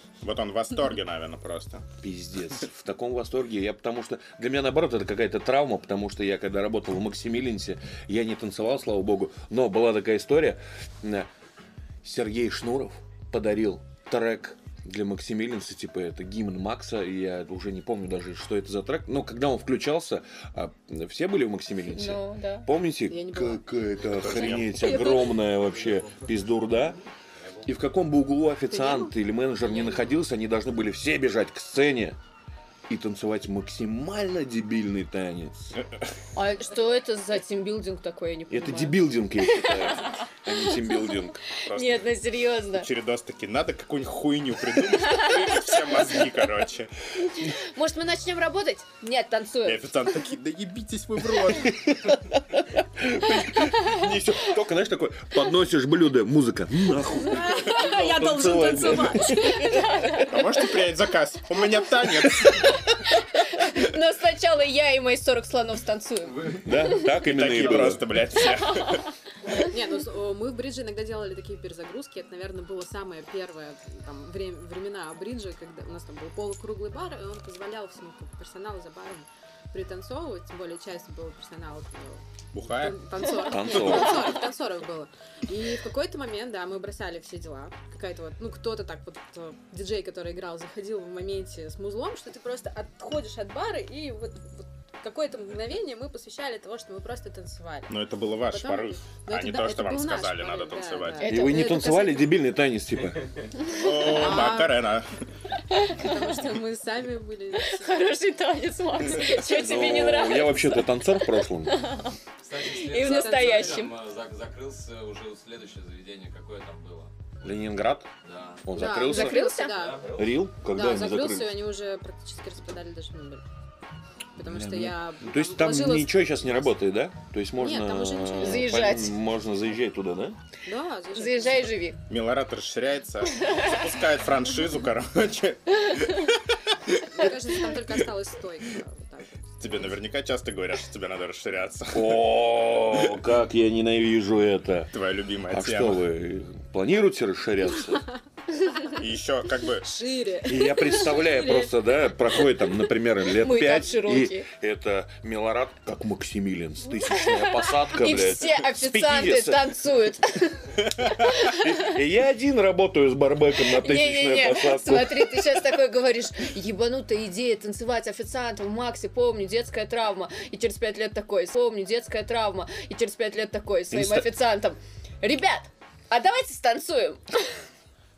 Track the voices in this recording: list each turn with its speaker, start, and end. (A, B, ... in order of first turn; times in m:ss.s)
0:00.2-0:01.8 A
0:02.0-0:11.3 B
0:12.0-0:27.0 B
0:21.9-0:22.7 C
0:23.1-0:25.4 D
0:24.2-0:24.8 A
0:27.6-0:32.2 B
0:28.8-0:29.1 D
0:29.7-0:30.0 D
0:32.9-0:35.8 B
0:36.3-0:42.9 C
0:38.5-0:41.4 B
0:41.7-0:42.1 A
0:42.7-0:46.9 A
0:45.1-0:45.5 C
0:47.4-0:49.9 C
0:49.6-0:51.9 A
0:51.6-0:59.6 B
0:57.2-0:59.9 D
0:59.6-1:00.6 C
1:00.2-1:02.8 A
1:02.4-1:07.2 C
1:06.6-1:08.1 B
1:07.2-1:09.0 A
1:09.6-1:42.1 D
1:22.5-1:23.0 A
1:23.4-1:24.4 B
1:37.9-1:41.3 A
1:41.2-1:42.1 C
1:41.2-1:43.5 B
1:43.7-1:45.1 A
1:44.1-1:44.7 D
1:44.1-1:44.6 C
1:45.8-1:46.2 C
1:45.9-1:48.1 D
1:47.7-1:53.9 C
1:49.5-1:51.8 B
1:52.4-1:57.1 E
1:53.0-1:53.9 D
1:57.4-1:58.1 B
1:58.2-1:58.6 E
1:58.6-1:59.5 B
1:58.8-2:00.1 D
1:58.9-1:59.9 C
1:59.7-2:00.2 E
2:00.1-2:01.6 B
2:00.6-2:03.4 D
2:04.4-2:06.6 D
2:04.4-2:10.4 B
2:07.6-2:08.8 D
2:08.4-2:09.2 C
2:10.6-2:11.7 D
2:11.1-2:12.0 C
2:12.1-2:17.0 A
2:17.0-2:19.7 D
2:19.6-2:22.2 A
2:21.9-2:24.9 B
2:24.9-2:26.0 A
2:25.5-2:28.1 B
2:28.9-2:29.9 A
2:29.8-2:31.7 D
2:30.4-2:39.7 B
2:33.3-2:34.5 C
2:37.1-2:41.7 C
2:41.4-2:45.7 B
2:43.6-2:57.4 C
2:53.9-2:54.3 B